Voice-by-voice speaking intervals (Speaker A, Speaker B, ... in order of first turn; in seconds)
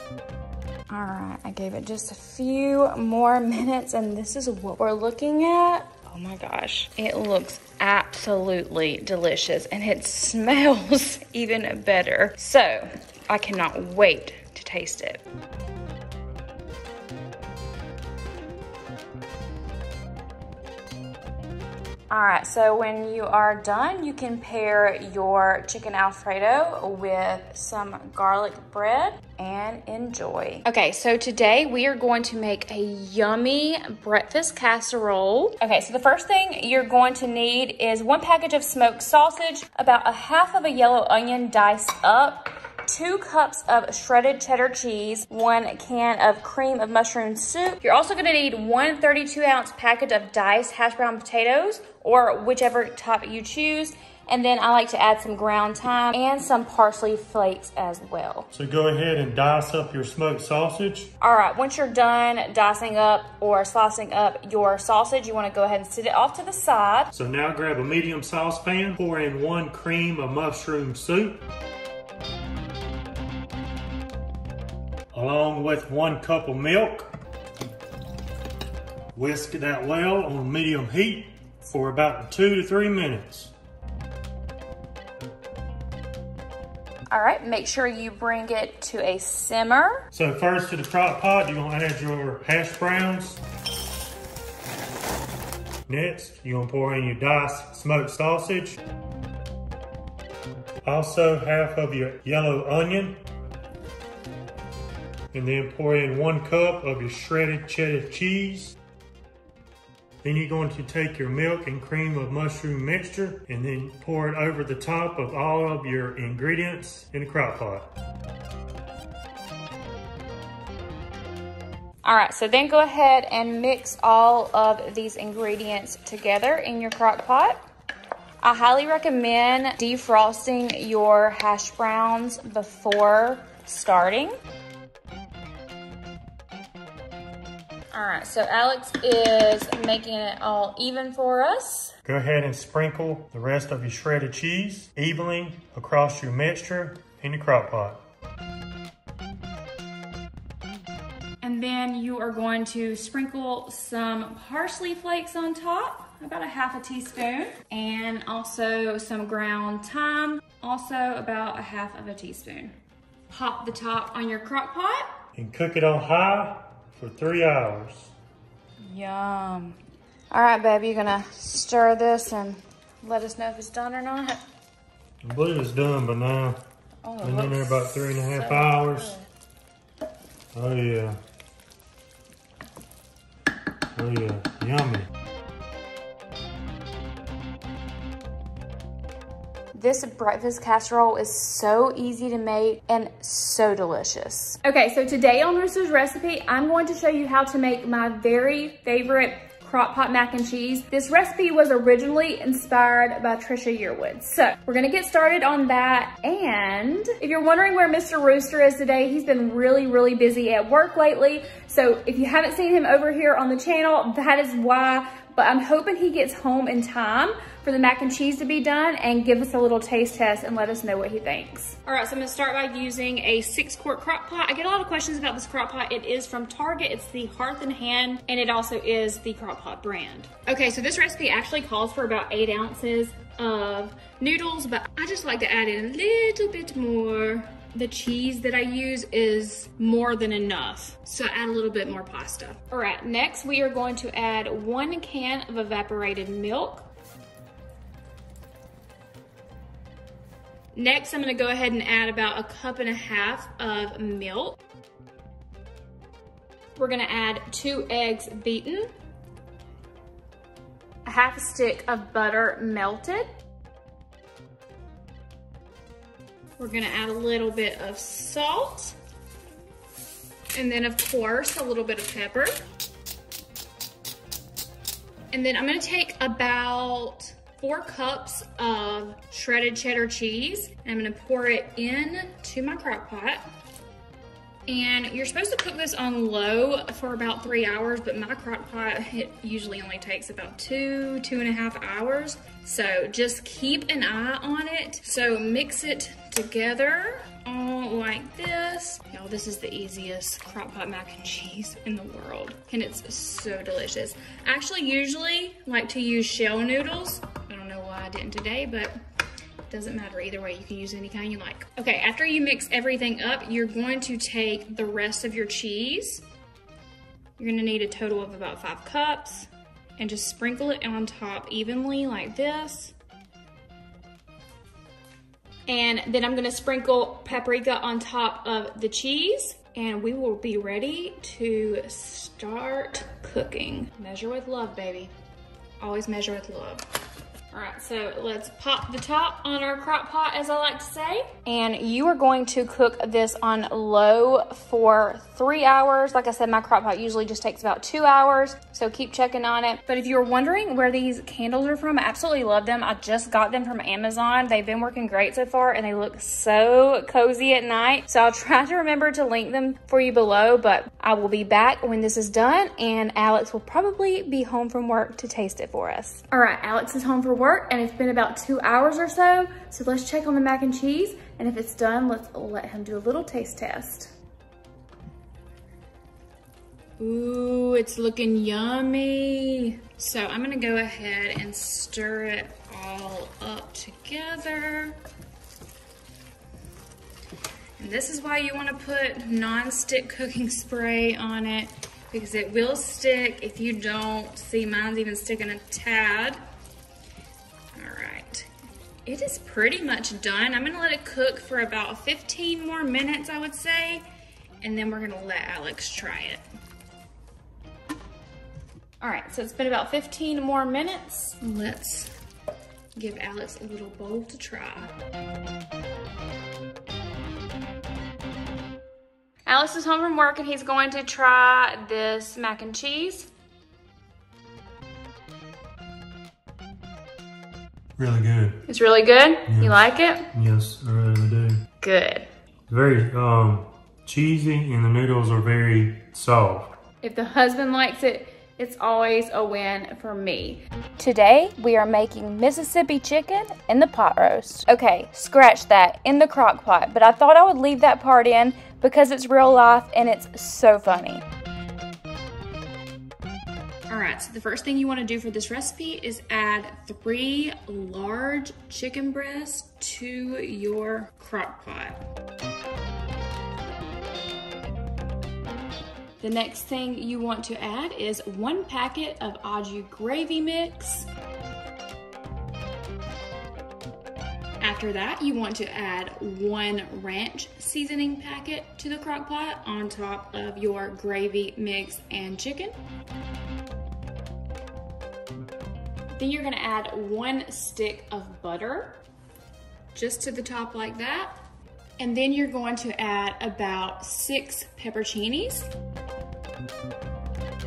Speaker A: 0.9-15.2, 22.1-58.5, 61.2-67.1, 87.1-90.0, 122.0-127.6, 128.4-134.3, 137.9-141.9, 151.4-162.7, 163.3-165.1, 168.8-169.8, 170.3-174.4, 177.0-179.3, 189.7-246.9, 250.7-254.6, 256.8-258.9, 261.0-263.3, 266.6-268.9, 270.5-272.6, 275.3-283.4, 284.7-308.9, 309.7-316.2, 317.4-322.9, 325.7-335.1, 335.8-336.8, 337.5-374.1, 377.0-384.9, 387.8-396.4, 397.7-398.5, 399.0-404.0, 404.6-406.4, 409.0-412.1, 412.9-414.9, 419.4-423.3, 428.7-430.3, 431.8-432.2, 437.0-451.2, 453.9-462.0, 466.2-471.1, 474.6-482.7, 486.1-489.0, 489.9-491.3, 492.0-495.7
Speaker B: 58.5-61.1, 67.1-71.4, 75.1-77.1, 79.1-83.5, 90.1-93.4, 95.9-98.8, 100.8-103.2, 105.3-108.8, 110.2-117.9, 142.0-148.0, 165.3-168.1, 175.2-176.6, 177.2-179.1, 180.5-181.2, 183.9-185.1, 428.0-428.6, 429.5-431.6, 432.7-436.7